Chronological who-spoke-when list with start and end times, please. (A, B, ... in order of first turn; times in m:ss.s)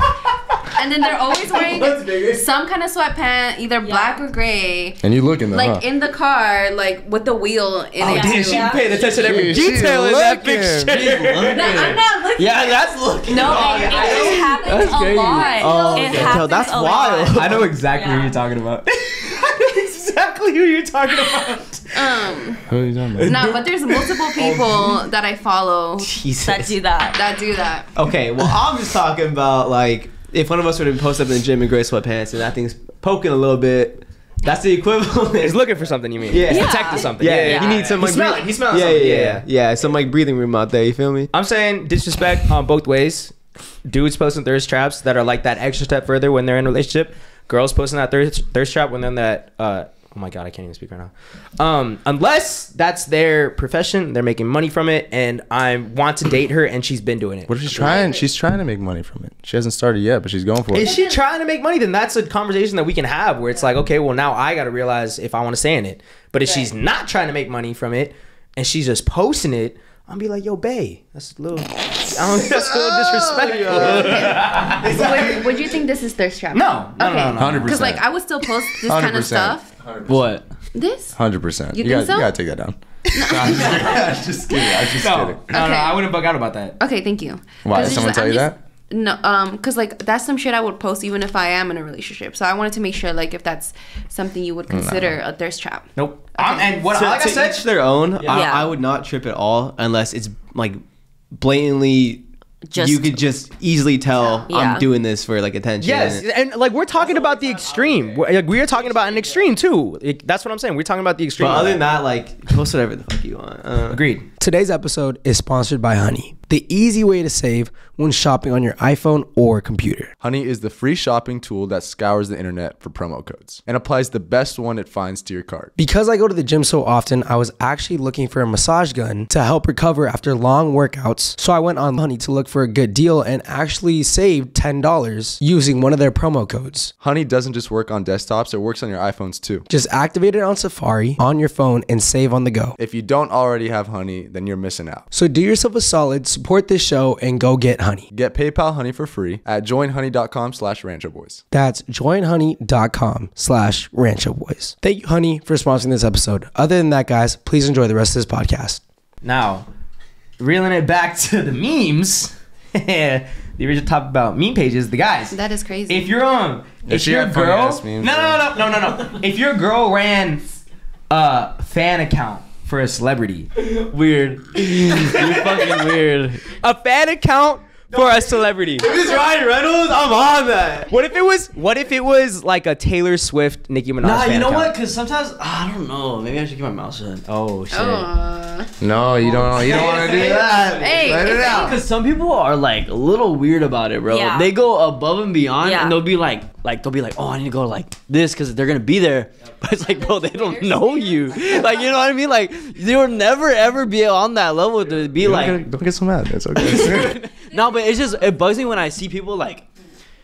0:00.7-0:09.6 A
0:01.5-0:02.3 B
0:03.8-0:04.2 C
0:05.0-0:05.8 D
0:08.0-0:11.8 E
0:08.0-0:09.4 C
0:09.2-0:11.1 D
0:10.9-0:15.7 F
0:11.5-0:16.6 A
0:13.2-0:18.4 C
0:13.5-0:14.4 E
0:13.7-0:14.3 B
0:15.6-0:17.7 B
0:15.8-0:16.4 E
0:17.3-0:22.4 E
0:21.9-0:22.7 A
0:22.7-0:23.5 D
0:23.2-0:24.6 E
0:23.2-0:26.2 A
0:24.4-0:24.9 B
0:26.2-0:26.7 B
0:26.4-0:27.3 C
0:27.1-0:28.0 A
0:28.0-0:35.6 B
0:35.3-0:39.5 E
0:36.3-0:41.3 B
0:36.5-0:38.0 C
0:41.3-0:58.0 E
0:57.5-1:01.0 D
0:57.7-0:58.3 A
1:00.7-1:15.4 E
1:00.9-1:01.2 A
1:12.6-1:13.0 D
1:13.4-1:15.4 B
1:13.7-1:19.7 A
1:13.7-1:14.2 D
1:16.5-1:18.0 E
1:17.4-1:18.1 D
1:18.9-1:20.4 D
1:20.1-1:20.4 F
1:20.7-1:21.2 A
1:21.2-1:25.6 D
1:21.7-1:22.3 A
1:23.1-1:24.2 A
1:25.0-1:26.8 E
1:25.5-1:26.0 A
1:26.8-1:36.7 A
1:27.6-1:28.6 D
1:34.7-1:35.2 D
1:36.0-1:37.7 E
1:36.9-1:40.8 B
1:38.2-1:38.6 E
1:38.3-1:38.8 C
1:41.3-1:46.2 B
1:42.6-1:43.2 C
1:44.2-1:44.5 A
1:44.5-1:44.9 C
1:45.8-1:51.8 E
1:46.9-1:49.5 F
1:51.4-1:54.1 B
1:53.9-1:54.3 E
1:54.4-2:00.1 G
2:00.2-2:05.7 D
2:05.8-2:16.9 G
2:17.0-2:19.7 D
2:19.7-2:22.8 G
2:22.8-2:25.1 D
2:25.1-2:28.1 G
2:28.1-2:31.4 D
2:31.5-2:38.8 G
2:39.2-2:39.7 E
2:40.4-2:50.5 E
2:45.3-2:46.1 A
2:46.9-2:48.5 D
2:51.1-2:53.5 E
2:53.6-2:56.6 F
2:54.9-2:55.9 E
2:56.5-2:58.9 E
2:57.9-2:58.2 B
2:58.8-3:00.9 B
2:59.0-2:59.4 A
3:00.9-3:04.7 E
3:04.0-3:07.3 F
3:07.3-3:08.1 E
3:07.7-3:08.7 A
3:08.8-3:11.8 D
3:09.4-3:25.6 F
3:10.8-3:11.8 A
3:14.1-3:14.5 C
3:15.6-3:16.0 C
3:19.8-3:21.9 C
3:25.2-3:27.2 D
3:26.6-3:29.7 F